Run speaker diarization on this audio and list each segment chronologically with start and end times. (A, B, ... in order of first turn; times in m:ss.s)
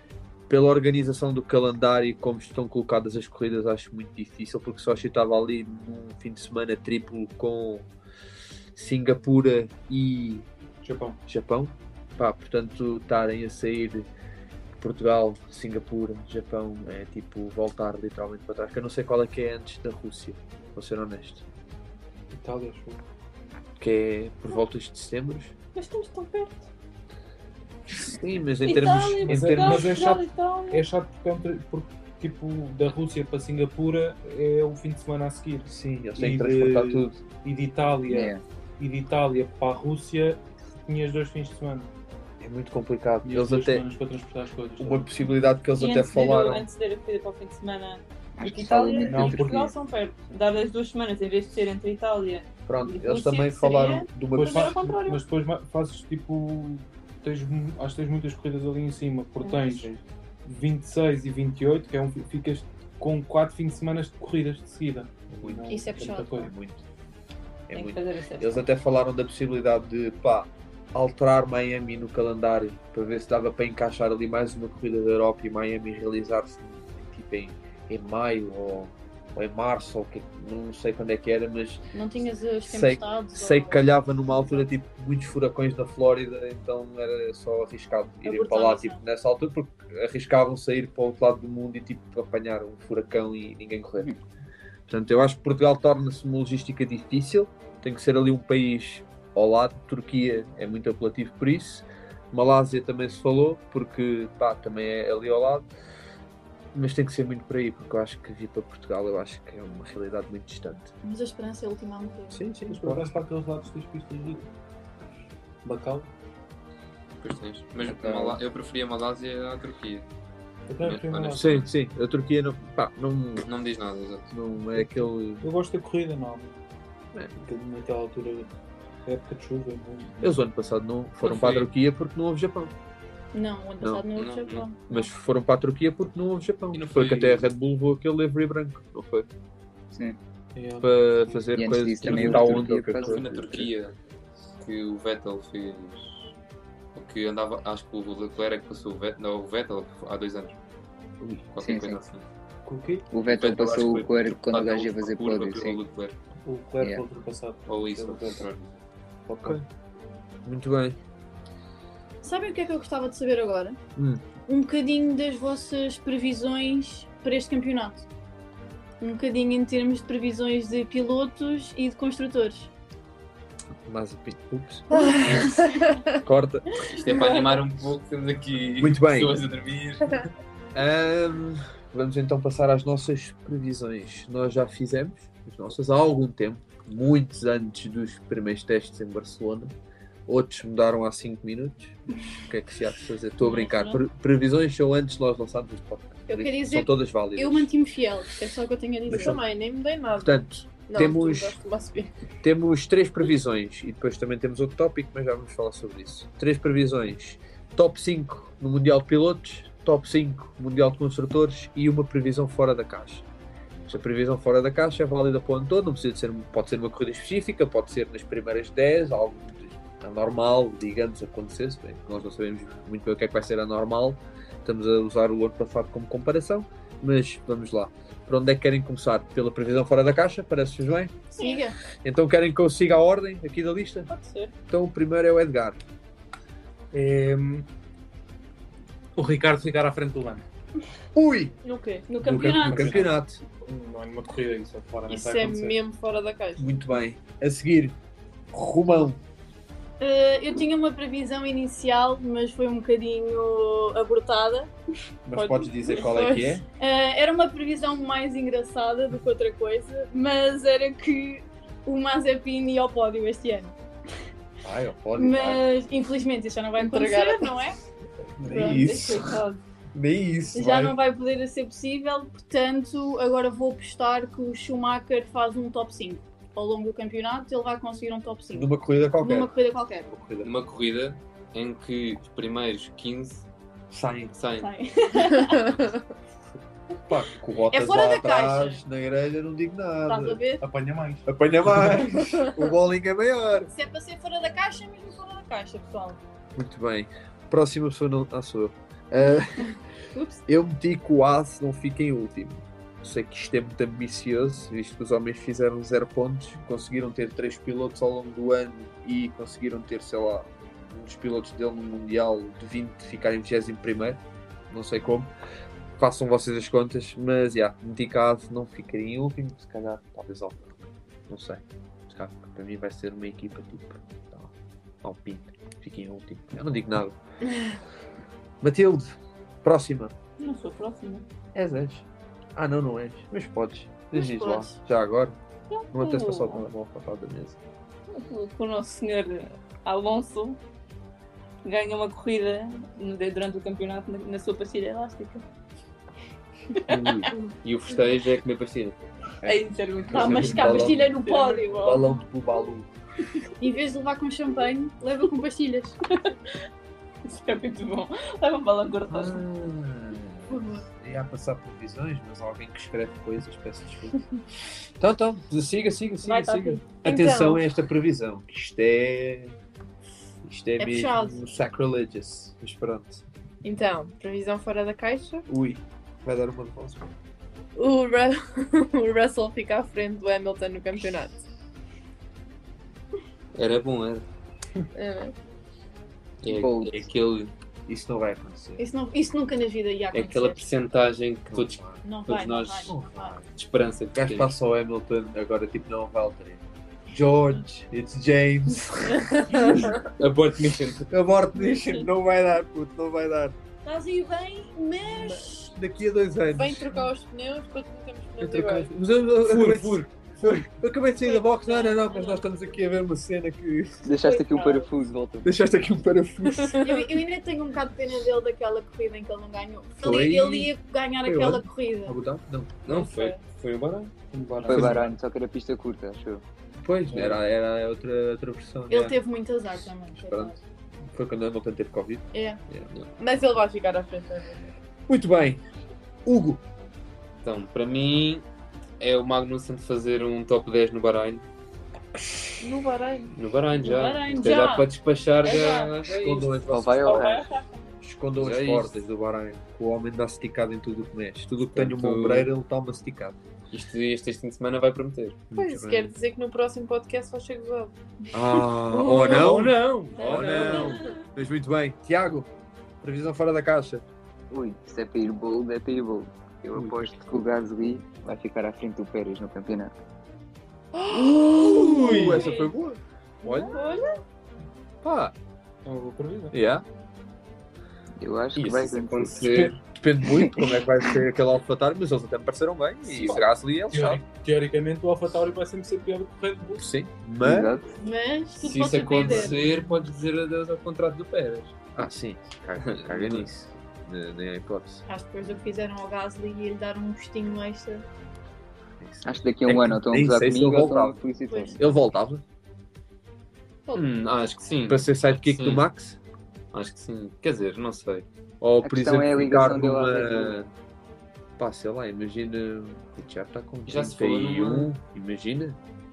0:00.5-0:07.9 A
0:08.7-0:10.5 A
0:10.8-0:11.2 B
0:11.3-0:14.1 A
0:14.8-0:21.4 A
0:22.3-0:23.0 B
0:23.8-0:25.5 A
0:25.7-0:26.7 C
0:28.0-0:30.1 A
0:28.6-0:30.8 C
0:29.2-0:41.9 B
0:35.7-0:37.2 A
0:38.1-0:38.4 D
0:42.4-0:43.8 A
0:43.2-0:45.1 B
0:44.8-0:46.7 A
0:45.7-0:55.2 C
0:48.4-0:49.7 D
0:49.0-0:49.7 B
0:52.7-0:54.8 A
0:54.3-1:06.5 B
0:59.4-0:59.8 C
1:05.3-1:06.8 A
1:05.7-1:06.3 E
1:07.7-1:21.8 A
1:07.7-1:08.6 C
1:21.9-1:23.9 E
1:22.7-1:34.1 A
1:28.2-1:29.0 E
1:34.9-1:45.7 A
1:46.7-1:50.9 A
1:51.0-1:52.4 E
1:52.3-1:53.1 A
1:52.7-1:54.4 B
1:55.6-1:56.1 B
1:57.2-2:00.0 F
1:57.8-1:58.4 D
2:00.7-2:01.6 B
2:00.8-2:01.6 F
2:01.3-2:03.5 A
2:03.4-2:04.3 F
2:04.3-2:05.4 A
2:04.8-2:06.6 B
2:07.4-2:08.5 B
2:09.0-2:10.3 B
2:10.2-2:12.7 A
2:11.2-2:11.7 F
2:13.3-2:15.1 E
2:13.8-2:14.0 A
2:14.2-2:14.6 F
2:14.9-2:19.3 A
2:16.7-2:17.4 F
2:19.9-2:20.2 D
2:20.5-2:22.7 B
2:20.8-2:23.7 A
2:21.6-2:23.2 D
2:22.9-2:23.9 F
2:24.6-2:26.3 F
2:26.9-2:30.6 F
2:31.5-2:32.2 F
2:31.6-2:32.0 D
2:32.6-2:33.0 B
2:33.1-2:35.8 D
2:33.2-2:36.2 F
2:36.4-2:38.5 B
2:37.7-2:38.8 F
2:39.3-2:39.6 B
2:40.4-2:41.0 A
2:42.2-2:43.8 E
2:44.0-2:44.2 A
2:44.5-2:48.0 E
2:49.0-2:52.7 E
2:53.8-2:55.1 A
2:56.2-2:56.7 A
2:56.9-3:00.3 F
2:58.8-2:59.4 A
3:00.7-3:09.7 A
3:10.3-3:17.7 A
3:13.4-3:14.0 C
3:16.3-3:19.4 E
3:19.1-3:19.4 A
3:19.1-3:22.1 G
3:20.1-3:21.6 A
3:22.4-3:33.2 A
3:33.9-3:51.2 A
3:51.3-3:51.8 E
3:52.0-3:54.1 A
3:54.7-3:55.8 A
3:56.9-3:57.6 B
3:59.2-4:00.4 B
4:01.1-4:01.6 A
4:01.6-4:02.1 G
4:02.1-4:03.1 E
4:02.2-4:03.4 A
4:02.3-4:05.8 B
4:05.1-4:06.7 G
4:06.6-4:08.0 A
4:08.5-4:09.2 A
4:10.0-4:14.7 E
4:15.2-4:16.6 A
4:15.4-4:16.6 G
4:16.8-4:23.7 E
4:24.6-4:25.7 A
4:25.2-4:27.8 E
4:26.8-4:27.5 G
4:28.4-4:29.3 A
4:28.4-4:29.6 C
4:29.9-4:31.0 A
4:30.5-4:40.1 E
4:38.5-4:40.5 A
4:40.4-4:43.4 F
4:43.9-4:44.3 A
4:44.3-4:44.7 F
4:44.6-4:45.7 E
4:47.1-4:50.4 A
4:47.7-4:48.8 E
4:50.1-4:50.6 E
4:50.6-4:52.0 B
4:51.3-4:53.7 A
4:53.7-4:56.2 E
4:56.5-4:59.8 A
5:00.1-5:00.4 E
5:00.5-5:15.3 A
5:16.0-5:27.2 A
5:28.6-5:30.1 A
5:30.4-5:31.2 C
5:31.5-5:35.4 A
5:34.1-5:34.8 E
5:35.7-5:36.6 C
5:35.9-5:37.6 A
5:38.1-5:40.6 C
5:41.6-5:45.4 C
5:46.7-5:47.3 C
5:46.9-5:47.3 A
5:47.6-5:49.0 F
5:49.4-5:51.2 A
5:49.4-5:52.0 C
5:50.1-5:52.2 E
5:51.7-5:52.9 A
5:53.6-5:56.0 E
5:57.2-5:59.4 C
5:59.1-6:04.2 A
6:00.5-6:00.8 E
6:04.8-6:09.6 A
6:06.3-6:06.8 E
6:07.0-6:07.6 G
6:10.4-6:13.2 A
6:10.8-6:11.4 E
6:13.6-6:15.4 G
6:15.5-6:17.1 A
6:17.8-6:21.4 G
6:23.5-6:24.2 F
6:24.9-6:25.3 G
6:26.4-6:27.5 F
6:26.4-6:27.0 D
6:27.8-6:28.8 A
6:28.8-6:30.6 E
6:30.1-6:32.9 F
6:31.5-6:32.0 A
6:32.0-6:33.4 E
6:32.8-6:33.5 A
6:33.6-6:34.5 F
6:34.1-6:40.0 A
6:40.0-6:41.1 F
6:41.1-6:43.6 A
6:43.8-6:45.7 E
6:45.7-6:47.1 A
6:46.5-6:48.9 G
6:48.4-6:54.1 A
6:49.5-6:50.0 F
6:51.2-6:52.4 E
6:54.0-6:55.6 D
6:54.2-6:54.8 E
6:55.4-6:56.9 A
6:56.8-7:02.2 E
7:00.0-7:00.7 A
7:01.2-7:02.9 A
7:02.8-7:04.1 F
7:02.9-7:03.4 G
7:04.3-7:05.1 B
7:04.6-7:06.4 D
7:06.8-7:09.2 A
7:08.9-7:10.6 E
7:10.2-7:12.9 A
7:12.3-7:12.6 E
7:13.2-7:14.7 G
7:15.1-7:15.6 A
7:16.2-7:16.6 A
7:17.4-7:18.4 F
7:19.0-7:21.4 F
7:22.6-7:23.3 G
7:23.3-7:26.7 F
7:23.8-7:24.9 E
7:25.5-7:25.8 C
7:26.0-7:27.3 A
7:26.7-7:27.4 D
7:27.0-7:27.6 C
7:28.0-7:33.4 A
7:28.4-7:29.0 F
7:31.7-7:32.5 F
7:33.7-7:35.4 F
7:35.5-7:36.1 A
7:35.5-7:37.9 G
7:38.3-7:42.5 A
7:38.9-7:41.0 B
7:43.0-7:44.0 A
7:44.5-7:49.9 D
7:46.7-7:47.2 A
7:51.1-7:53.8 A
7:51.8-7:52.5 G
7:53.5-7:54.0 G
7:53.7-7:54.0 E
7:55.0-7:55.3 A
7:55.8-7:56.6 B
7:56.5-7:56.8 A
7:58.2-7:59.7 D
7:58.6-7:59.8 F
7:59.4-8:04.2 A
8:00.2-8:00.8 D
8:03.2-8:06.9 B
8:06.8-8:07.7 A
8:07.4-8:07.9 D
8:08.0-8:09.6 E
8:08.6-8:11.8 F
8:11.9-8:15.0 A
8:12.7-8:13.5 F
8:15.1-8:18.0 E
8:19.0-8:21.2 A
8:19.2-8:21.8 D
8:21.5-8:21.8 E
8:21.8-8:22.4 A
8:23.9-8:25.8 F
8:24.9-8:26.2 A
8:26.7-8:28.2 F
8:28.6-8:30.7 A
8:28.8-8:30.6 D
8:31.6-8:35.8 A
8:33.8-8:34.9 F